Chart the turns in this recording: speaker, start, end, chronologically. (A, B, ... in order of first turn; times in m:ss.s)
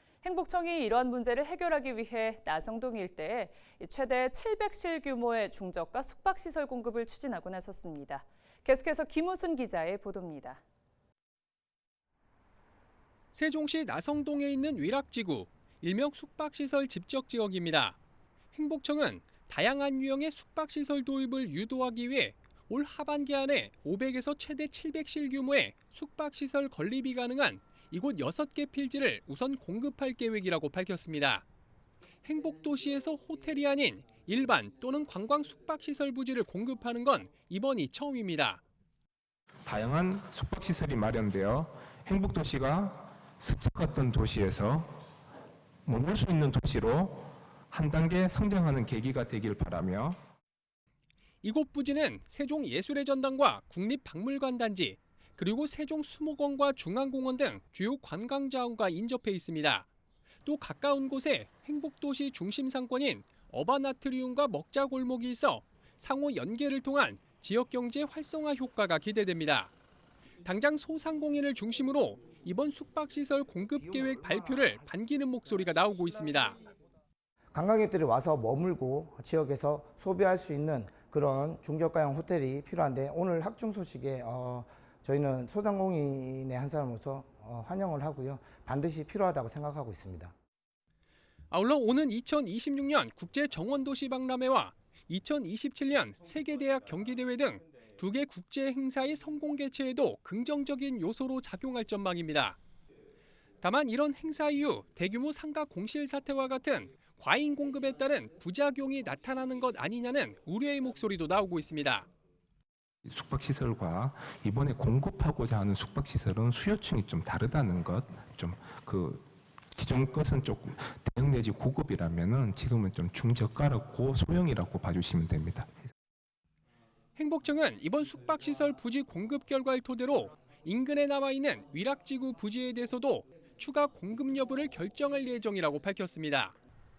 0:00.2-0:10.6 A
0:13.3-0:18.0 B
0:18.5-0:31.4 B
0:32.2-0:38.6 B
0:39.6-0:45.0 C
0:45.8-0:50.2 C
0:51.4-0:59.9 B
1:00.4-1:09.7 B
1:10.4-1:16.6 B
1:17.5-1:30.3 D
1:31.5-1:42.6 B
1:43.6-1:52.1 B
1:53.0-2:05.8 C
2:07.2-2:16.5 B